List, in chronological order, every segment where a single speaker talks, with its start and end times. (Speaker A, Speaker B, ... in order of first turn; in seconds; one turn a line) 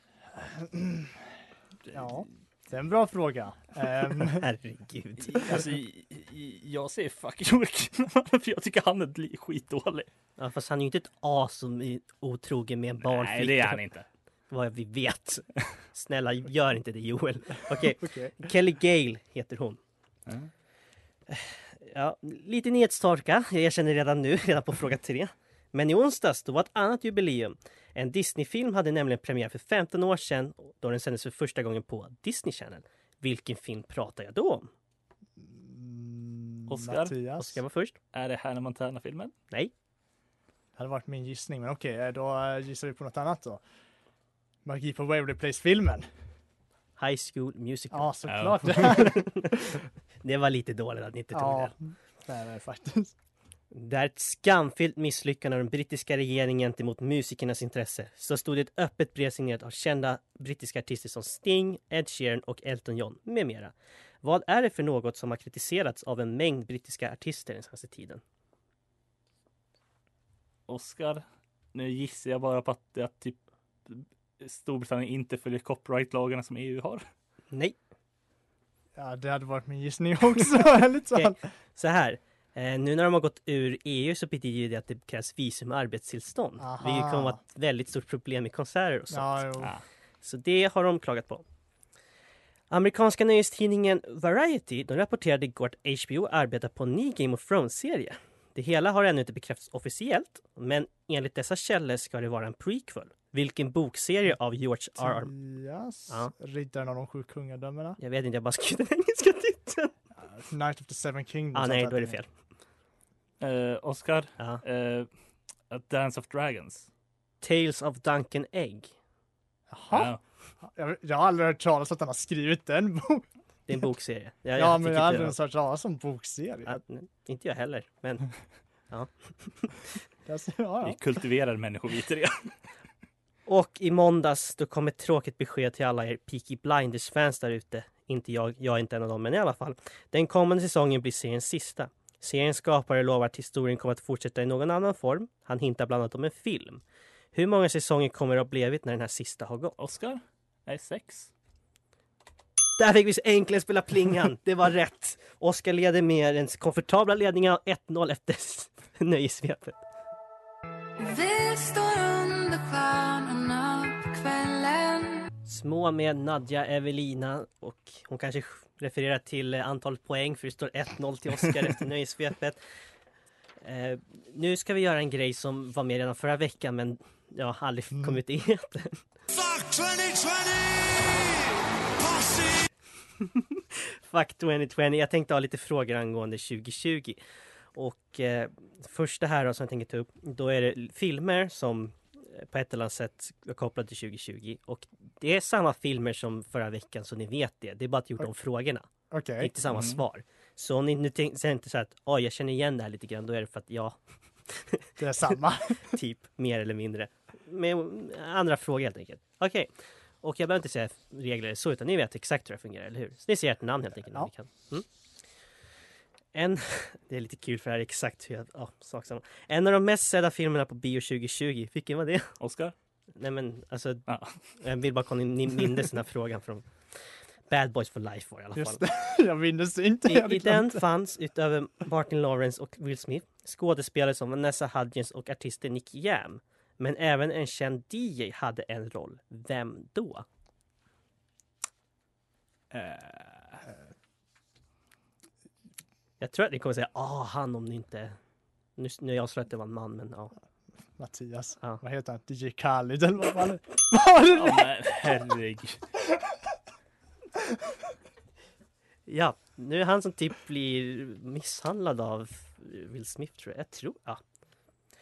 Speaker A: 0.4-1.1
Speaker A: 1.9-4.4
Speaker B: 4.2-5.6
Speaker C: 5.4-10.1
Speaker B: 10.4-13.8
Speaker C: 13.0-14.1
Speaker B: 14.5-19.8
Speaker A: 17.9-18.4
Speaker B: 21.3-34.7
Speaker A: 35.4-37.6
Speaker C: 36.7-37.1
Speaker B: 37.4-38.0
Speaker C: 38.1-39.3
Speaker A: 40.8-43.6
Speaker A: 44.6-46.1
Speaker B: 47.0-49.7
Speaker A: 47.9-49.5
Speaker C: 48.3-49.1
Speaker B: 50.2-51.7
Speaker A: 51.3-53.1
Speaker B: 53.7-68.2
Speaker C: 70.7-77.0
Speaker B: 77.5-77.8
Speaker A: 79.0-81.4
Speaker B: 81.2-89.5
Speaker A: 86.6-87.4
Speaker A: 89.1-89.7
Speaker B: 90.2-91.4
Speaker B: 92.7-105.3
Speaker A: 105.0-108.0
Speaker B: 108.0-109.9
Speaker A: 110.2-112.2
Speaker B: 111.5-112.3
Speaker C: 113.4-115.1
Speaker C: 115.7-116.9
Speaker B: 117.4-118.9
Speaker A: 119.7-120.1
Speaker C: 119.9-120.2
Speaker A: 120.6-123.2
Speaker B: 123.7-125.3
Speaker A: 124.5-126.8
Speaker B: 126.7-128.2
Speaker B: 128.9-129.7
Speaker A: 130.2-131.0
Speaker C: 130.8-132.5
Speaker B: 133.5-146.8
Speaker B: 147.3-149.8
Speaker C: 149.8-151.3
Speaker B: 152.8-159.8
Speaker D: 161.0-165.2
Speaker B: 165.5-172.6
Speaker B: 173.6-179.0
Speaker C: 179.9-180.2
Speaker B: 184.1-187.2
Speaker B: 187.7-198.9
Speaker A: 199.1-199.5
Speaker B: 199.4-204.0
Speaker C: 199.7-200.0
Speaker B: 204.5-204.9
Speaker A: 205.0-205.9
Speaker B: 205.9-214.8
Speaker B: 216.3-222.3
Speaker C: 222.4-222.7
Speaker B: 223.2-224.1
Speaker C: 224.1-224.3
Speaker B: 224.6-226.7
Speaker B: 227.5-228.8
Speaker A: 228.5-230.8
Speaker B: 230.1-240.2
Speaker C: 242.7-243.6
Speaker B: 246.2-248.2
Speaker B: 248.8-250.3
Speaker A: 251.0-254.7
Speaker C: 254.3-255.8
Speaker B: 259.1-264.2